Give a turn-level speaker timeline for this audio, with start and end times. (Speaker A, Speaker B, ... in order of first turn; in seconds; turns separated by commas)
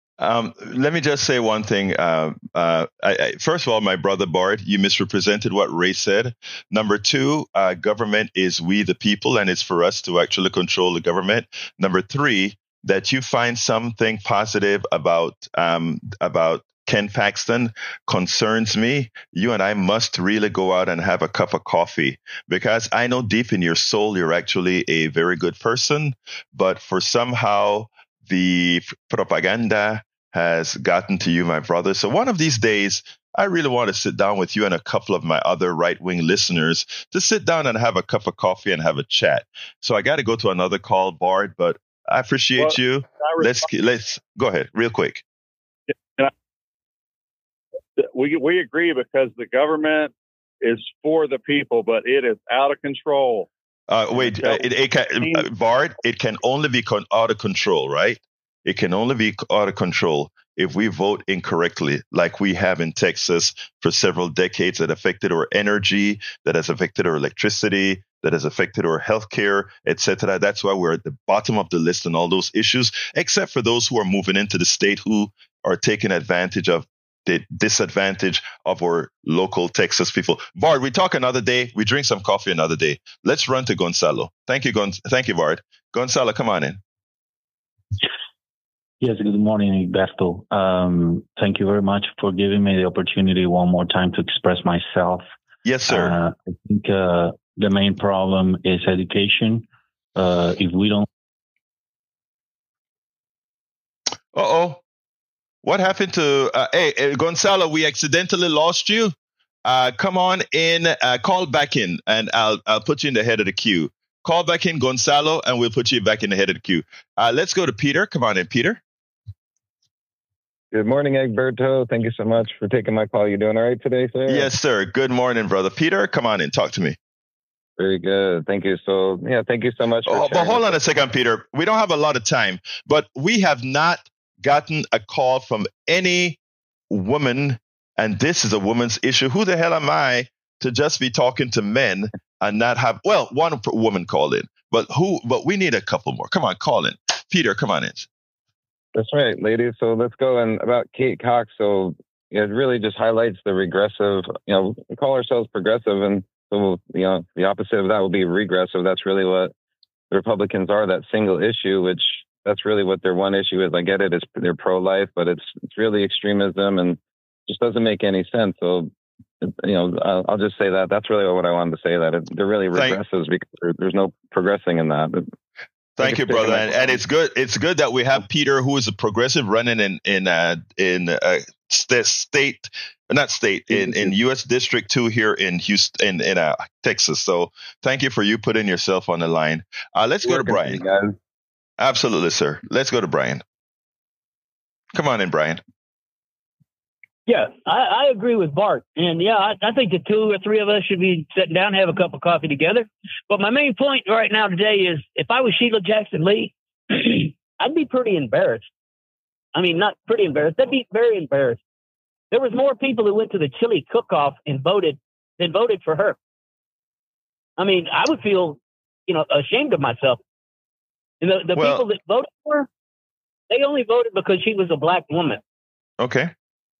Speaker A: 0.2-45.2, Speaker B: 42.6-43.6, Speaker B: 48.0-53.5, Speaker A: 53.9-86.8, Speaker B: 54.1-54.6, Speaker C: 89.0-95.2, Speaker A: 95.6-96.2, Speaker C: 95.9-101.1, Speaker A: 104.3-104.8, Speaker A: 105.6-109.1, Speaker A: 109.6-118.8, Speaker D: 120.7-124.5, Speaker A: 124.3-127.0, Speaker D: 127.8-130.8, Speaker A: 130.1-136.4, Speaker A: 136.9-148.1, Speaker D: 148.9-159.5, Speaker D: 160.1-175.3, Speaker A: 172.7-173.0, Speaker A: 176.0-190.8, Speaker D: 176.0-177.0, Speaker D: 183.7-184.1, Speaker D: 190.2-191.2, Speaker A: 191.8-193.4, Speaker A: 194.9-195.6, Speaker E: 197.3-208.6, Speaker E: 209.5-211.6, Speaker E: 212.3-216.2, Speaker E: 217.6-220.2, Speaker E: 221.2-222.7, Speaker A: 221.6-221.8, Speaker E: 223.5-225.4, Speaker A: 226.0-226.3